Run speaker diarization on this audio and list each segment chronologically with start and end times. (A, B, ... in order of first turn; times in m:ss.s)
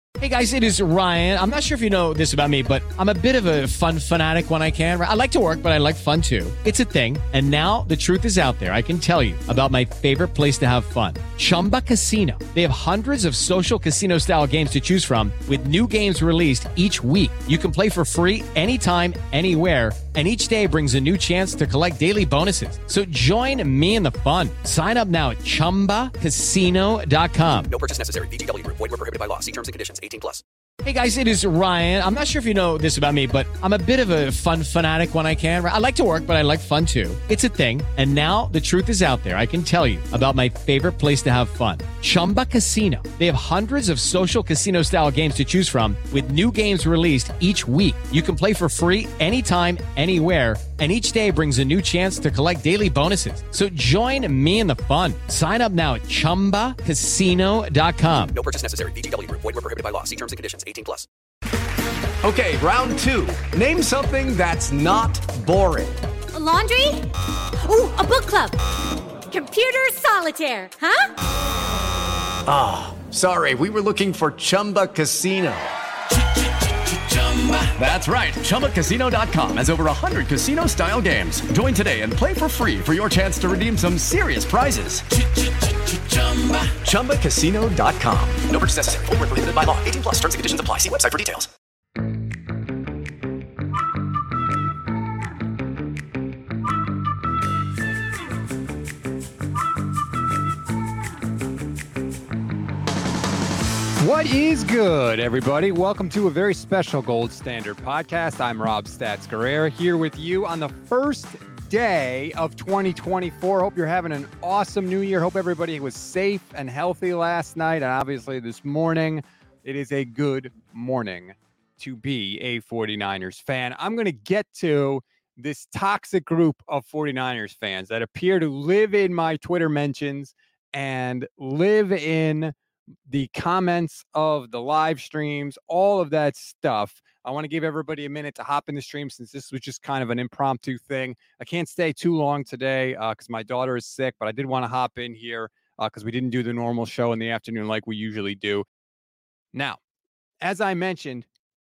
0:00.2-0:27.7 A
0:27.7-0:30.4 B
0:30.8-0:58.4 A
0:58.4-1:01.1 B
1:02.2-1:06.0 C
1:06.3-1:07.1 D
1:07.6-1:08.6 D
1:09.3-1:11.1 D
1:12.5-1:15.7 C
1:17.4-1:25.0 C
1:26.3-1:28.6 C
1:28.5-1:31.5 B
1:44.0-2:12.5 E
2:13.1-2:28.7 E
2:29.5-2:29.8 E
2:30.4-2:31.3 E